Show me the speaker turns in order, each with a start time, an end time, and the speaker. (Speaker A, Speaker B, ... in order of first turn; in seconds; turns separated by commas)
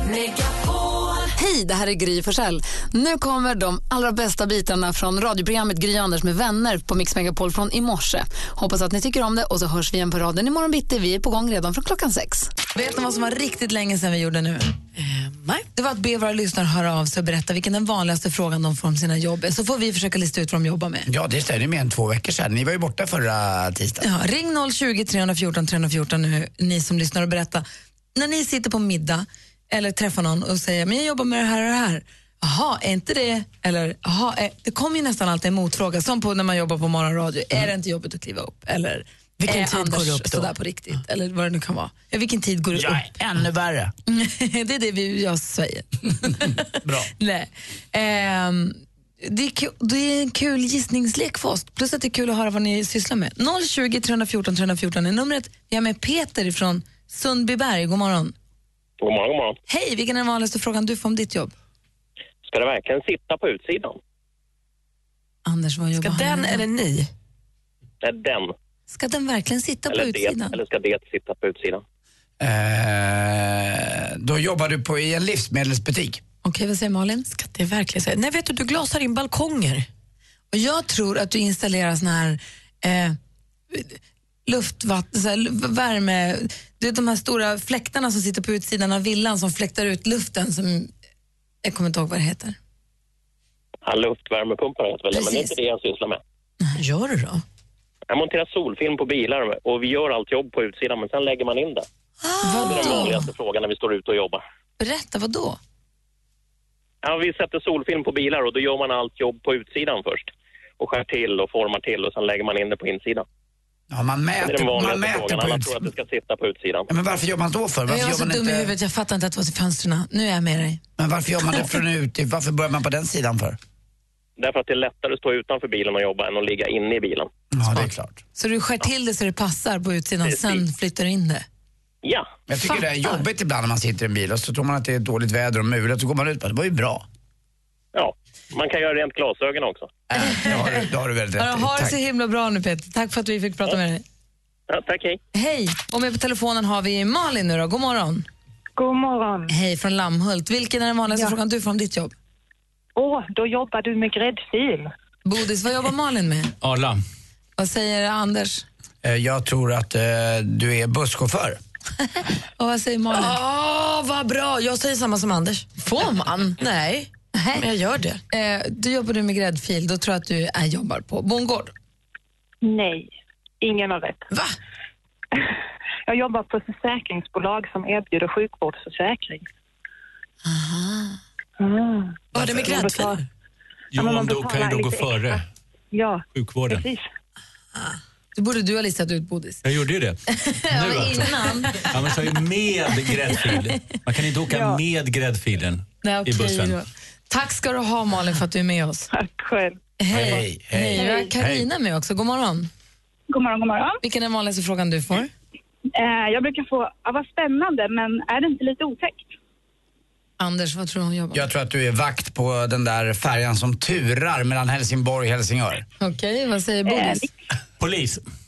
Speaker A: 1.4-12.5, Speaker B: 12.7-14.7, Speaker C: 15.0-15.7, Speaker B: 15.7-21.1, Speaker D: 21.1-24.0, Speaker B: 24.0-43.0, Speaker C: 39.4-40.5, Speaker D: 42.7-43.9, Speaker B: 44.1-58.3, Speaker D: 46.8-47.1, Speaker E: 59.0-59.6, Speaker B: 59.7-61.5, Speaker E: 62.5-64.0, Speaker B: 65.5-66.6, Speaker C: 66.0-67.1, Speaker E: 68.0-68.5, Speaker B: 68.9-70.5, Speaker E: 69.9-71.8, Speaker D: 72.4-76.2, Speaker B: 76.4-77.3, Speaker C: 77.3-79.9, Speaker B: 80.5-83.2, Speaker B: 83.7-90.9, Speaker B: 91.6-92.6, Speaker E: 93.8-96.2, Speaker B: 95.1-95.5, Speaker C: 96.8-97.4, Speaker E: 98.1-101.8, Speaker C: 102.2-103.1, Speaker B: 102.4-103.2, Speaker E: 102.6-104.4, Speaker B: 104.8-105.6, Speaker E: 107.0-113.2, Speaker D: 113.9-115.8, Speaker E: 114.4-116.9, Speaker D: 116.9-118.7, Speaker B: 117.9-120.8, Speaker D: 121.0-123.6, Speaker E: 124.4-127.3, Speaker D: 127.5-128.2, Speaker B: 128.3-131.4, Speaker E: 130.3-130.6, Speaker D: 132.5-137.0, Speaker B: 132.6-133.2, Speaker E: 137.9-139.9, Speaker D: 140.1-142.0, Speaker B: 140.2-140.7, Speaker B: 141.4-144.0, Speaker E: 144.7-145.2, Speaker B: 145.3-148.2, Speaker F: 148.8-149.5, Speaker B: 149.5-152.1, Speaker F: 152.9-154.9, Speaker B: 155.2-156.5, Speaker G: 156.6-157.0, Speaker B: 157.6-158.6, Speaker D: 159.0-161.6, Speaker B: 162.6-163.4, Speaker C: 163.1-165.8, Speaker B: 165.8-166.6, Speaker C: 166.6-168.2, Speaker B: 167.3-167.7, Speaker B: 168.3-171.7, Speaker F: 172.6-174.2, Speaker C: 174.3-174.6, Speaker F: 176.1-179.4, Speaker B: 180.4-181.2, Speaker F: 181.6-183.2, Speaker C: 182.3-183.2, Speaker G: 183.9-185.4, Speaker F: 183.9-185.4, Speaker F: 185.9-187.1, Speaker G: 186.3-186.8, Speaker B: 188.3-189.6, Speaker G: 189.6-190.2, Speaker B: 190.3-191.9, Speaker G: 190.7-196.8, Speaker F: 194.5-194.8, Speaker B: 196.0-199.1, Speaker F: 199.1-199.8, Speaker B: 200.0-202.7, Speaker D: 200.1-201.1, Speaker G: 201.4-201.7, Speaker H: 203.3-204.0, Speaker B: 204.0-205.3, Speaker H: 205.9-209.3, Speaker B: 210.4-211.5, Speaker D: 211.3-215.8, Speaker B: 216.0-217.3, Speaker H: 216.8-217.3, Speaker G: 217.8-218.2